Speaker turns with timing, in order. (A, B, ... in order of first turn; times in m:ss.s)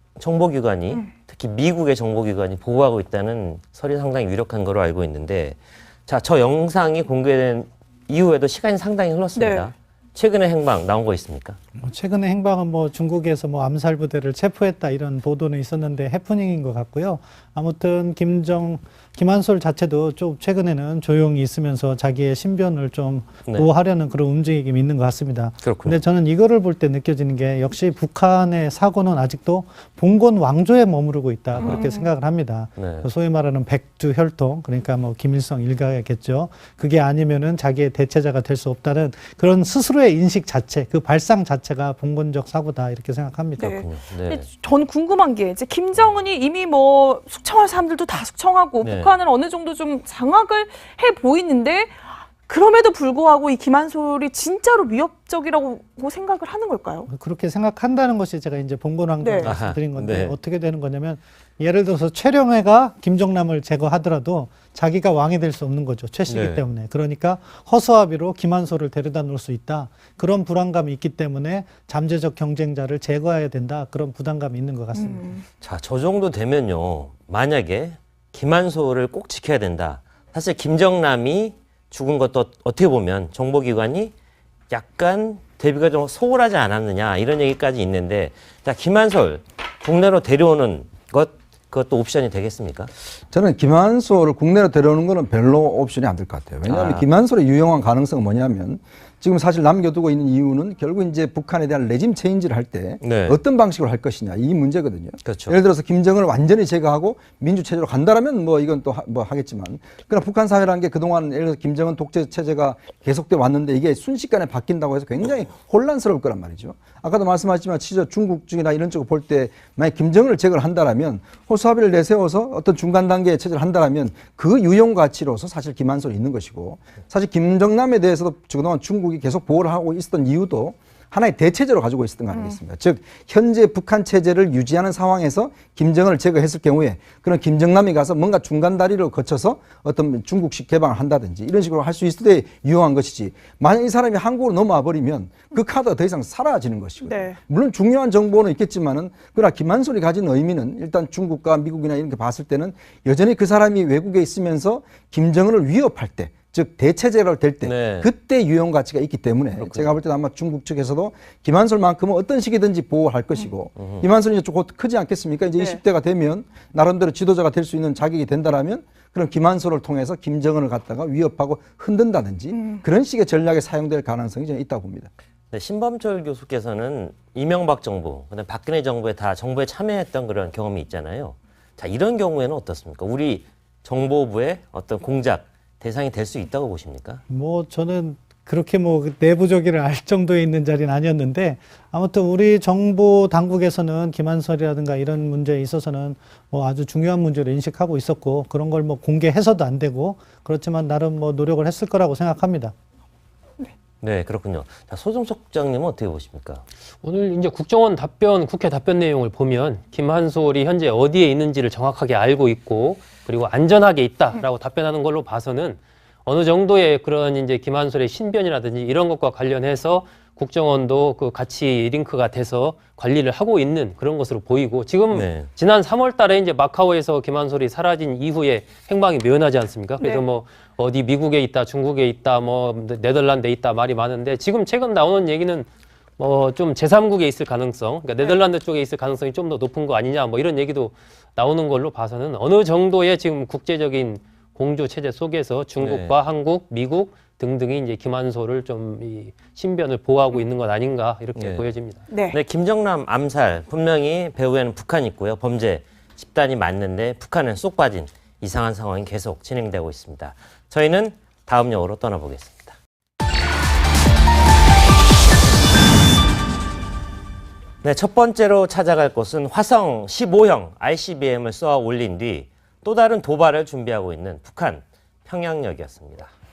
0:00.2-0:11.6 A
0:09.4-0:09.7 B
0:11.8-0:43.8 C
0:25.6-0:26.0 A
0:31.6-0:32.1 B
0:32.8-0:33.1 A
0:43.6-0:57.1 B
0:43.6-0:44.5 A
0:48.8-0:49.1 A
0:57.1-1:15.3 C
0:59.2-0:59.6 B
0:59.4-1:00.3 A
1:06.3-1:06.6 A
1:15.0-1:15.4 B
1:15.6-1:24.1 A
1:24.7-1:32.9 A
1:33.3-2:55.1 D
1:36.7-1:37.0 A
1:43.0-1:43.4 A
1:45.2-1:45.6 A
2:12.3-2:12.6 B
2:27.1-2:27.4 B
2:37.6-2:38.1 A
2:39.6-2:39.9 A
2:43.8-2:44.1 A
2:52.5-2:52.8 B
2:55.5-3:07.2 A
3:07.3-3:22.7 C
3:24.0-3:26.6 A
3:27.0-4:12.0 E
3:45.1-3:45.5 A
4:05.8-4:06.2 A
4:11.4-4:11.7 A
4:12.1-4:12.4 B
4:12.3-4:22.8 A
4:27.8-4:36.3 A